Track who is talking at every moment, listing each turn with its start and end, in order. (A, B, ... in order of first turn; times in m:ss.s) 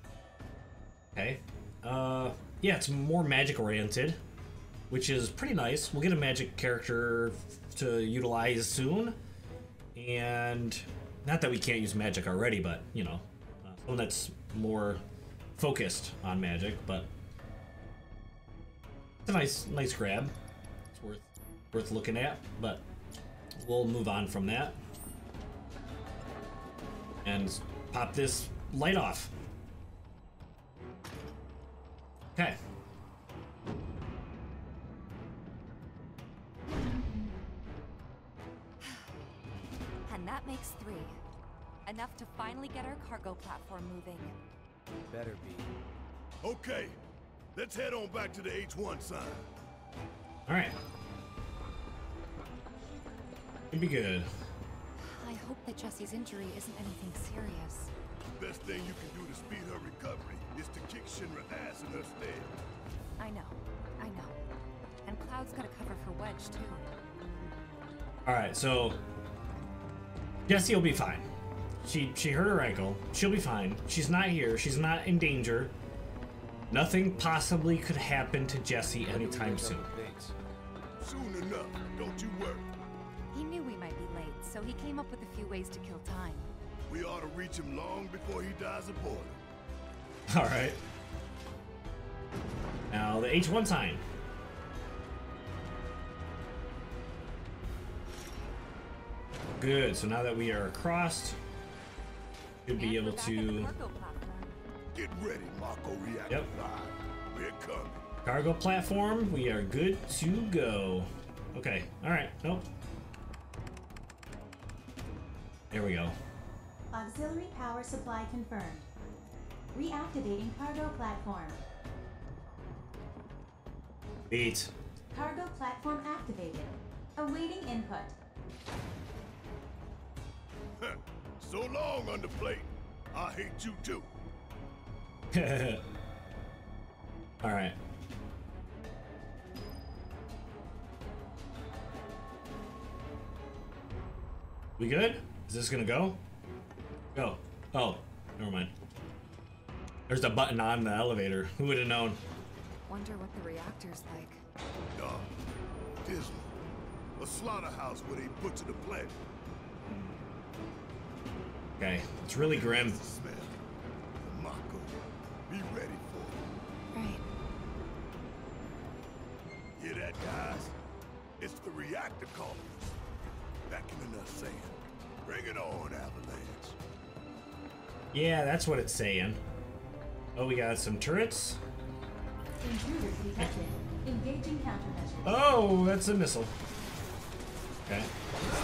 0:01.1-0:04.2 A
0:04.9-0:09.2 A
0:10.0-0:15.0 A
0:15.6-0:17.1 A
0:19.2-0:20.3 A
0:20.9-0:22.8 A
0:23.6-0:24.8 A
0:27.2-0:29.3 A
0:40.1-0:41.2 B
0:41.9-0:44.4 B
0:45.1-0:45.7 C
0:46.4-0:47.0 D
0:47.6-0:49.5 D
0:50.5-0:50.8 A
0:53.7-0:54.3 A
0:55.0-0:57.9 B
0:58.4-1:02.6 D
1:03.2-1:04.4 B
1:05.0-1:06.9 B
1:08.2-1:09.0 A
1:10.5-1:11.3 A
1:11.8-1:15.7 A
1:16.7-1:19.9 A
1:19.1-1:20.4 C
1:21.0-1:22.7 D
1:23.3-1:26.5 B
1:26.9-1:29.4 D
1:30.3-1:30.8 A
1:32.9-1:34.0 A
1:39.6-1:41.4 A
1:42.7-1:43.7 A
1:42.8-1:44.6 B
1:44.9-1:48.0 D
1:48.2-1:52.7 A
1:55.7-1:56.2 A
1:56.9-1:58.9 E
1:59.7-2:01.6 E
2:04.3-2:04.7 A
2:05.1-2:08.2 E
2:10.8-2:14.1 D
2:15.3-2:15.8 A
2:17.4-2:17.8 A
2:24.8-2:26.2 A
2:27.1-2:28.7 A
2:30.1-2:32.2 A
2:32.9-2:34.4 B
2:35.0-2:35.3 D
2:36.0-2:36.5 D
2:37.2-2:39.2 D
2:41.8-2:43.0 A
2:42.5-2:43.6 D
2:44.2-2:46.4 D
2:46.9-2:47.2 B
2:49.8-2:50.8 D
2:51.4-2:52.9 D
2:53.7-2:56.8 D
2:58.1-2:59.4 A
3:00.4-3:01.6 A
3:02.6-3:05.5 E
3:05.2-3:06.5 A